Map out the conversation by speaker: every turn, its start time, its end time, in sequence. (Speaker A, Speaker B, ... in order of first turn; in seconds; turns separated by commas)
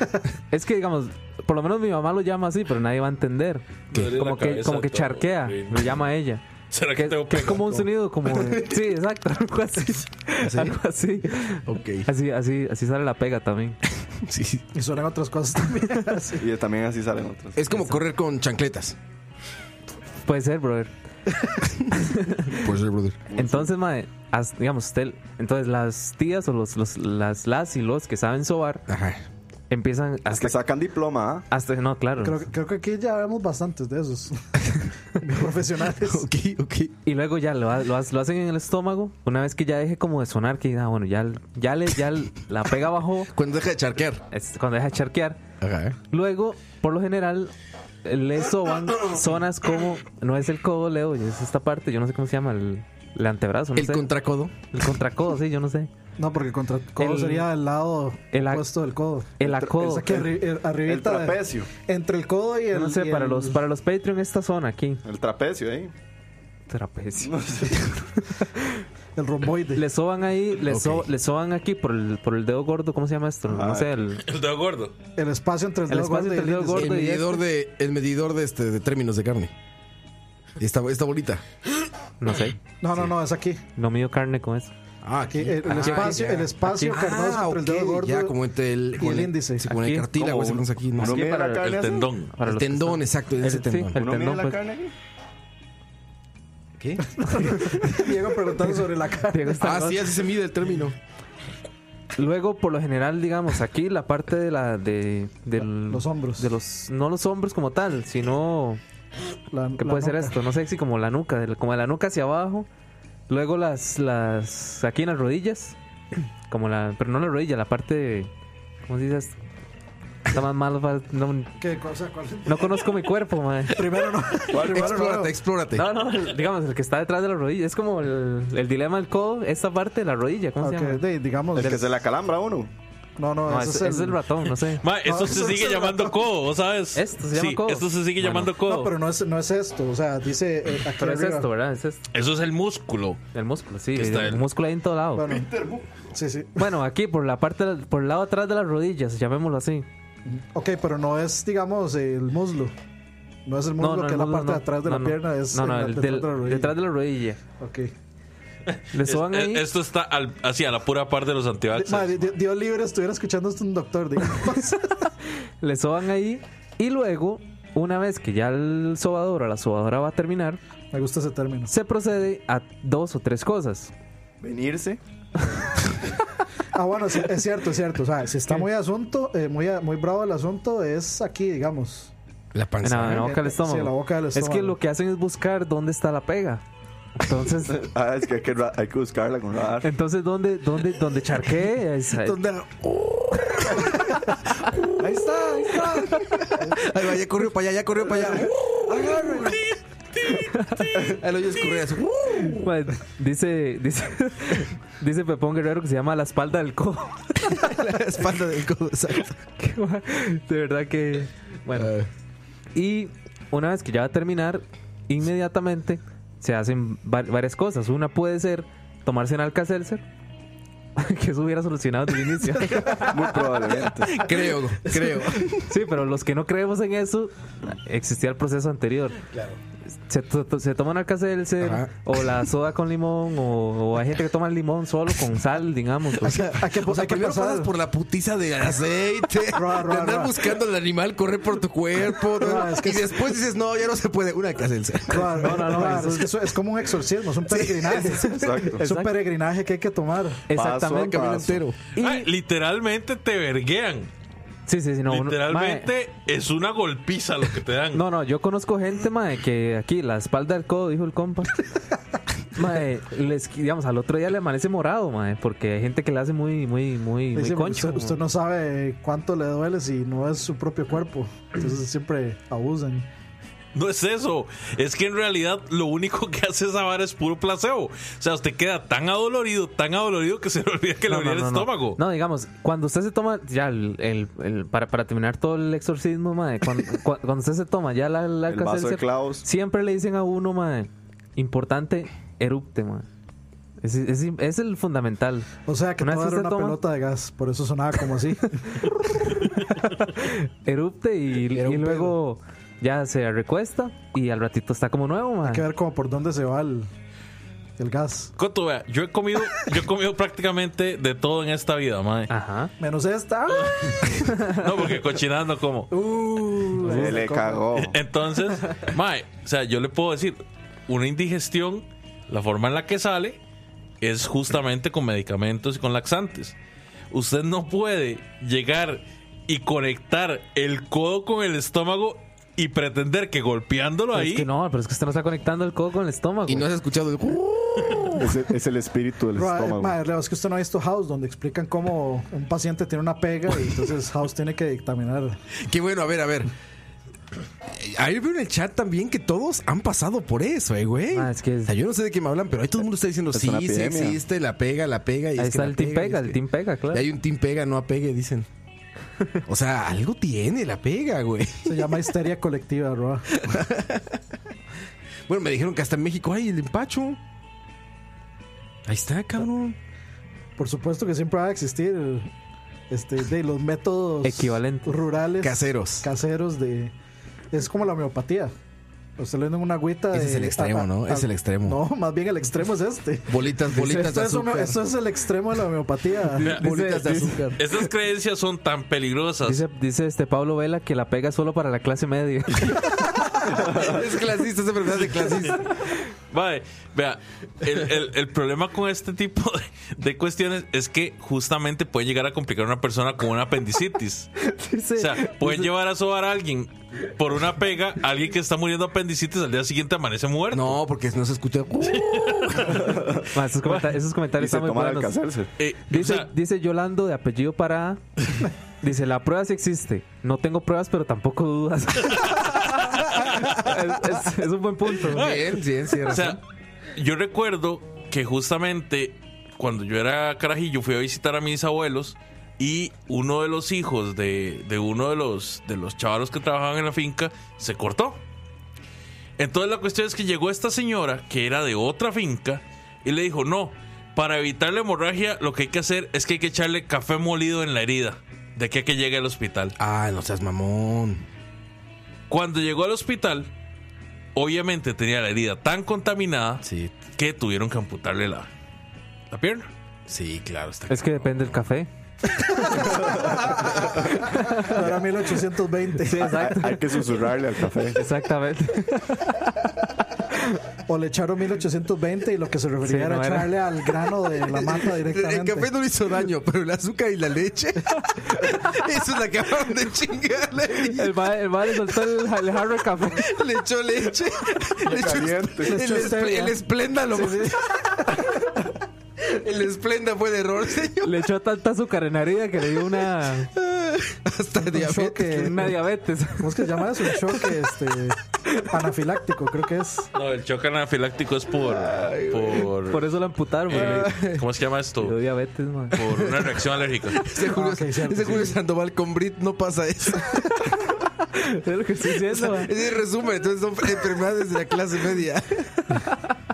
Speaker A: 0.5-6.4, Speaker B: 3.9-6.0, Speaker B: 6.7-7.8, Speaker A: 6.9-13.8, Speaker C: 10.4-10.8, Speaker C: 11.7-12.1, Speaker C: 14.1-14.7, Speaker D: 14.7-16.4, Speaker E: 16.4-17.6, Speaker C: 17.6-18.9, Speaker A: 17.7-18.0, Speaker A: 20.3-20.9, Speaker C: 21.6-21.9, Speaker A: 21.9-22.6, Speaker C: 22.4-23.2, Speaker E: 23.3-23.7, Speaker A: 23.4-28.9, Speaker C: 28.9-29.2, Speaker A: 29.7-30.6, Speaker E: 30.3-31.4, Speaker A: 31.5-32.4, Speaker D: 32.2-34.4, Speaker D: 35.1-36.2, Speaker C: 35.9-37.0, Speaker A: 37.0-43.3, Speaker C: 43.3-44.2, Speaker A: 44.3-45.4, Speaker C: 45.6-46.0, Speaker A: 46.1-47.5, Speaker A: 48.0-54.1, Speaker C: 53.8-54.5, Speaker A: 54.7-55.9, Speaker D: 56.2-63.6, Speaker A: 57.0-57.5, Speaker A: 58.3-58.7, Speaker A: 59.4-60.3, Speaker E: 60.8-61.7, Speaker A: 62.7-65.0, Speaker E: 65.0-65.9, Speaker A: 66.7-68.8, Speaker E: 67.2-67.9, Speaker D: 69.2-69.8, Speaker A: 69.7-74.2, Speaker C: 70.7-71.1, Speaker E: 73.5-73.9, Speaker B: 74.2-74.9, Speaker D: 75.2-77.0, Speaker A: 75.9-77.4, Speaker C: 76.7-79.5, Speaker C: 80.6-81.4, Speaker A: 82.2-82.6, Speaker D: 82.8-83.6, Speaker A: 83.8-84.7, Speaker C: 85.0-91.2, Speaker D: 85.3-88.3, Speaker A: 85.7-87.0, Speaker D: 89.0-89.7, Speaker A: 89.7-90.1, Speaker E: 90.1-92.1, Speaker A: 91.0-91.7, Speaker B: 91.5-92.3, Speaker A: 92.3-94.6, Speaker C: 92.4-94.0, Speaker E: 93.9-94.9, Speaker C: 96.8-97.5, Speaker D: 97.2-99.6, Speaker A: 97.3-98.0, Speaker A: 99.3-100.2, Speaker C: 99.6-101.0, Speaker A: 102.2-108.8, Speaker D: 105.6-106.5, Speaker D: 109.5-110.4, Speaker A: 109.8-112.7, Speaker A: 113.3-118.3, Speaker A: 118.9-119.4, Speaker A: 120.3-121.5, Speaker D: 121.6-122.9, Speaker A: 122.5-123.8, Speaker D: 123.7-125.3, Speaker E: 124.5-125.2, Speaker C: 124.5-125.8, Speaker A: 125.7-131.0, Speaker D: 130.6-131.9, Speaker E: 131.6-132.7, Speaker D: 133.2-134.2, Speaker A: 133.5-134.8, Speaker B: 134.8-138.9, Speaker D: 135.0-136.2, Speaker A: 136.9-138.5, Speaker D: 138.6-141.5, Speaker A: 141.0-142.0, Speaker B: 142.1-143.2, Speaker A: 143.3-145.3, Speaker B: 143.9-144.4, Speaker D: 145.2-145.6, Speaker D: 146.1-146.6, Speaker A: 146.6-149.9, Speaker D: 150.3-152.7, Speaker D: 153.4-156.7, Speaker A: 153.8-157.4, Speaker D: 157.6-157.9, Speaker A: 158.9-159.7, Speaker B: 159.0-162.3, Speaker D: 161.7-165.0, Speaker A: 165.6-170.6, Speaker D: 170.9-171.7, Speaker A: 171.7-173.9, Speaker E: 174.4-175.0, Speaker D: 176.7-182.1, Speaker C: 182.5-183.4, Speaker A: 182.8-186.6, Speaker D: 183.0-184.8, Speaker A: 187.2-187.8, Speaker E: 187.7-189.9, Speaker A: 189.8-192.4, Speaker C: 192.1-194.1, Speaker C: 194.7-199.6, Speaker E: 195.0-196.2, Speaker E: 198.9-199.6, Speaker A: 200.3-200.9, Speaker C: 200.9-202.7, Speaker A: 202.6-207.8, Speaker C: 207.4-209.4, Speaker A: 209.6-211.9, Speaker C: 211.7-212.1, Speaker A: 212.7-220.0, Speaker A: 221.0-223.4, Speaker E: 223.0-224.3, Speaker C: 224.0-225.7, Speaker D: 224.9-225.2, Speaker A: 225.6-229.2, Speaker C: 229.3-229.6, Speaker A: 230.1-236.4, Speaker C: 231.6-231.9, Speaker C: 236.2-246.0, Speaker D: 236.2-237.7, Speaker D: 239.5-240.5, Speaker D: 242.3-243.3, Speaker D: 245.1-250.5, Speaker A: 245.4-246.3, Speaker C: 247.4-248.3, Speaker A: 248.2-249.1, Speaker E: 248.4-248.8, Speaker A: 250.5-252.3, Speaker E: 250.5-251.6, Speaker C: 251.1-251.8, Speaker B: 252.0-254.1, Speaker A: 254.7-255.9, Speaker B: 255.1-258.0, Speaker A: 257.9-261.6, Speaker A: 262.5-268.2, Speaker D: 267.3-273.1, Speaker B: 273.7-282.0, Speaker A: 281.1-293.1, Speaker E: 288.5-289.4, Speaker A: 293.8-296.8, Speaker D: 295.6-299.6, Speaker A: 300.1-305.6, Speaker C: 301.6-302.1, Speaker D: 305.4-306.9, Speaker D: 307.8-308.3, Speaker B: 308.4-312.3, Speaker A: 312.3-312.7, Speaker D: 312.8-314.3, Speaker B: 313.6-315.9, Speaker A: 314.2-314.6, Speaker D: 315.9-317.6, Speaker E: 316.8-318.0, Speaker B: 317.7-323.4, Speaker B: 324.0-326.6, Speaker B: 327.1-334.5, Speaker A: 334.1-336.7, Speaker C: 336.5-338.4, Speaker E: 338.2-340.0, Speaker D: 339.4-345.4, Speaker C: 345.6-346.5, Speaker C: 347.7-356.4, Speaker A: 351.1-351.7, Speaker E: 353.3-354.2, Speaker A: 355.4-357.1, Speaker C: 356.9-358.5, Speaker C: 359.4-362.0, Speaker D: 361.6-363.4, Speaker C: 363.4-364.2, Speaker C: 365.3-367.2, Speaker C: 368.9-369.8, Speaker D: 370.6-372.3, Speaker D: 372.9-376.9, Speaker A: 374.2-375.0, Speaker C: 375.4-376.1, Speaker D: 377.5-378.5, Speaker D: 379.2-386.5, Speaker C: 380.1-381.8, Speaker C: 383.3-384.8, Speaker C: 386.4-387.6, Speaker B: 386.4-386.6, Speaker A: 386.4-387.5, Speaker B: 387.6-389.6, Speaker A: 389.4-393.1, Speaker C: 393.4-395.6, Speaker B: 395.3-395.6, Speaker B: 396.3-404.3, Speaker A: 404.4-405.7, Speaker B: 405.0-410.8, Speaker C: 410.5-413.0, Speaker B: 411.9-412.9, Speaker E: 412.9-413.3, Speaker A: 413.3-415.1, Speaker E: 414.3-415.5, Speaker B: 415.6-416.3, Speaker A: 415.9-418.0, Speaker A: 418.8-425.2, Speaker B: 422.1-423.7, Speaker B: 425.1-426.4, Speaker C: 425.1-426.4, Speaker B: 426.9-438.2, Speaker B: 439.4-449.8, Speaker C: 449.8-451.3, Speaker B: 452.3-453.5, Speaker B: 454.4-456.6, Speaker C: 456.6-456.9, Speaker B: 457.1-458.5, Speaker B: 459.3-459.7, Speaker C: 460.1-461.4, Speaker A: 460.9-461.9, Speaker D: 462.7-463.5, Speaker C: 462.8-464.1, Speaker A: 464.1-464.8, Speaker D: 464.4-466.6, Speaker A: 466.0-467.0, Speaker E: 466.4-468.0, Speaker A: 467.9-469.7, Speaker A: 470.3-470.6, Speaker D: 470.9-475.7, Speaker A: 472.8-473.6, Speaker C: 474.6-481.2, Speaker A: 480.7-483.3, Speaker C: 481.8-482.2, Speaker C: 483.0-488.4, Speaker E: 484.9-485.8, Speaker D: 485.6-486.6, Speaker D: 487.1-488.2, Speaker C: 489.2-491.3, Speaker A: 491.0-493.5, Speaker C: 493.5-495.6, Speaker D: 494.7-495.7, Speaker A: 495.3-496.7, Speaker D: 496.4-500.1, Speaker B: 500.1-503.0, Speaker C: 501.6-502.7, Speaker A: 502.9-504.1, Speaker B: 503.7-505.1, Speaker C: 503.7-504.4, Speaker A: 505.0-506.0, Speaker B: 505.9-507.2, Speaker C: 506.0-506.6, Speaker C: 507.1-510.8, Speaker D: 507.4-508.6, Speaker A: 511.3-512.7, Speaker C: 512.1-516.0